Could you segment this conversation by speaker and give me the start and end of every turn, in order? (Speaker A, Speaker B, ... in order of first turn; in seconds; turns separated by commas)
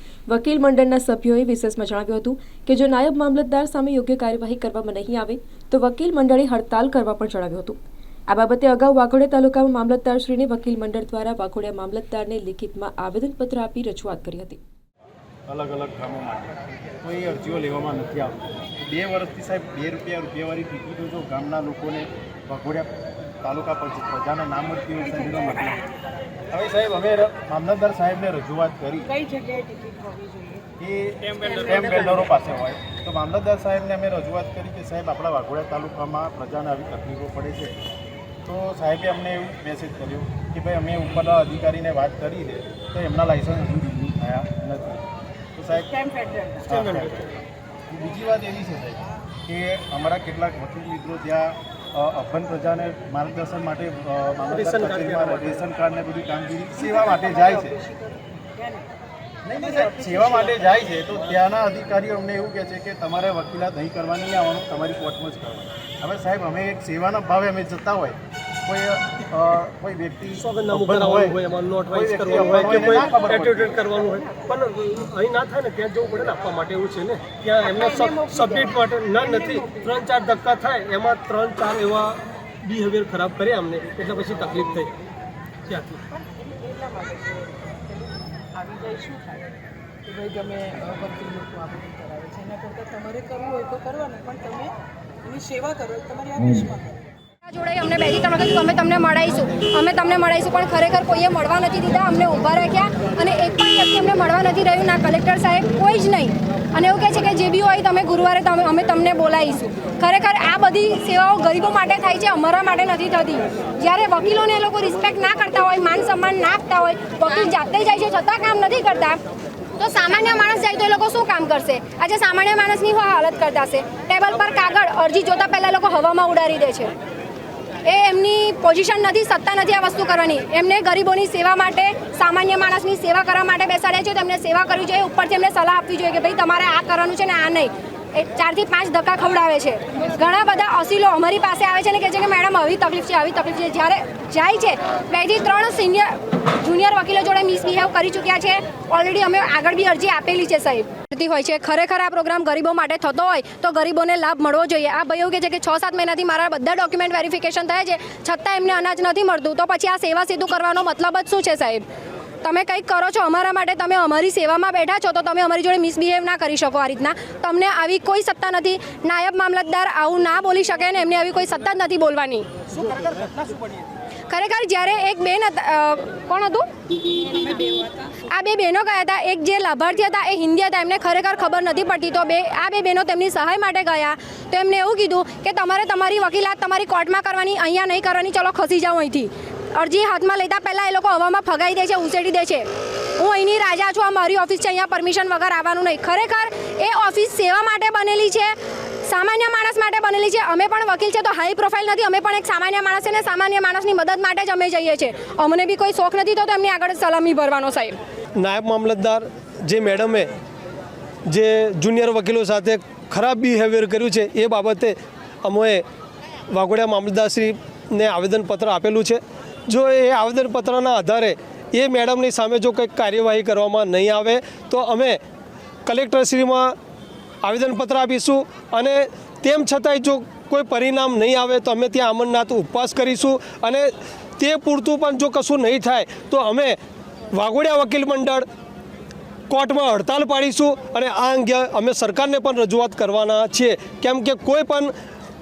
Speaker A: 0.3-14.6, Speaker B: 15.5-25.9, Speaker B: 26.5-29.2, Speaker C: 29.1-30.7, Speaker B: 30.8-37.8, Speaker B: 38.5-45.0, Speaker B: 45.6-46.1, Speaker C: 46.1-46.6, Speaker B: 46.7-47.3, Speaker D: 46.7-47.2, Speaker B: 47.9-57.8, Speaker D: 54.5-55.6, Speaker C: 57.3-58.8, Speaker B: 59.5-71.4, Speaker D: 70.4-84.9, Speaker B: 71.9-73.8, Speaker D: 85.7-86.0, Speaker C: 86.2-97.0, Speaker E: 97.4-119.2, Speaker E: 119.8-126.9, Speaker E: 127.8-161.8, Speaker E: 162.4-172.5, Speaker E: 174.3-208.0, Speaker D: 208.4-210.3, Speaker D: 211.3-215.8, Speaker D: 216.5-225.2, Speaker D: 225.9-226.8, Speaker D: 227.4-236.8, Speaker D: 237.3-238.4, Speaker D: 239.5-244.9